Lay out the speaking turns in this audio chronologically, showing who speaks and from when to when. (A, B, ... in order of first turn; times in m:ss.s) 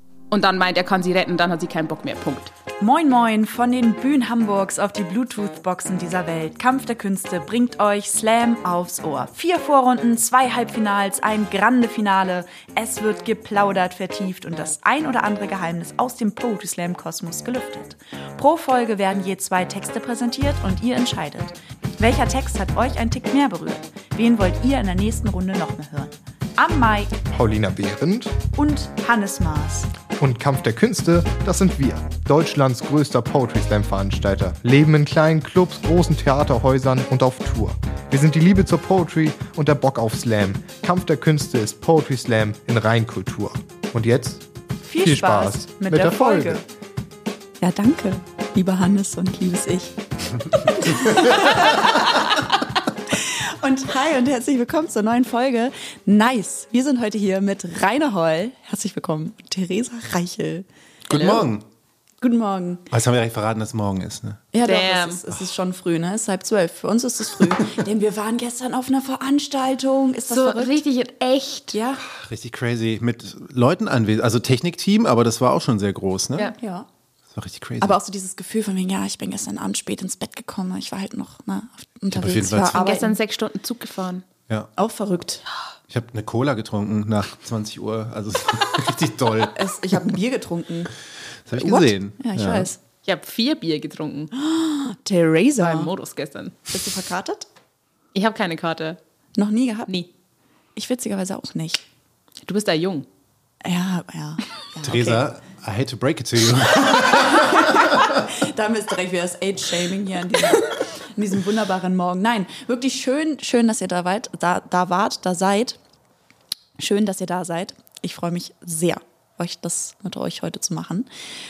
0:00.3-0:02.5 A
0:02.8-0:27.3 B
0:27.3-0:28.4 C
0:28.5-0:29.9 B
0:30.2-0:44.4 C
0:44.8-0:46.6 B
0:45.0-0:46.6 C
0:47.6-0:52.4 B
0:51.0-0:52.0 D
0:53.1-1:00.7 B
1:01.1-1:01.6 D
1:01.1-1:01.4 A
1:02.2-1:02.9 B
1:02.9-1:04.4 D
1:04.5-1:10.8 B
1:04.6-1:05.2 A
1:10.3-1:11.8 A
1:11.7-1:12.0 B
1:12.0-1:16.5 D
1:16.6-1:16.9 B
1:17.4-1:18.0 D
1:17.8-1:23.2 B
1:22.1-1:22.8 D
1:22.7-1:24.3 A
1:24.8-1:25.4 B
1:25.9-1:30.1 D
1:29.5-1:30.9 B
1:31.5-1:32.7 D
1:31.6-1:32.8 B
1:33.0-1:34.3 A
1:34.3-1:35.9 B
1:35.6-1:36.6 A
1:36.7-1:37.5 B
1:38.1-1:39.0 A
1:39.4-1:39.9 B
1:40.8-1:41.8 B
1:42.5-1:43.1 A
1:43.6-1:45.2 B
1:44.8-1:48.2 D
1:46.9-1:55.8 B
1:56.8-2:01.1 B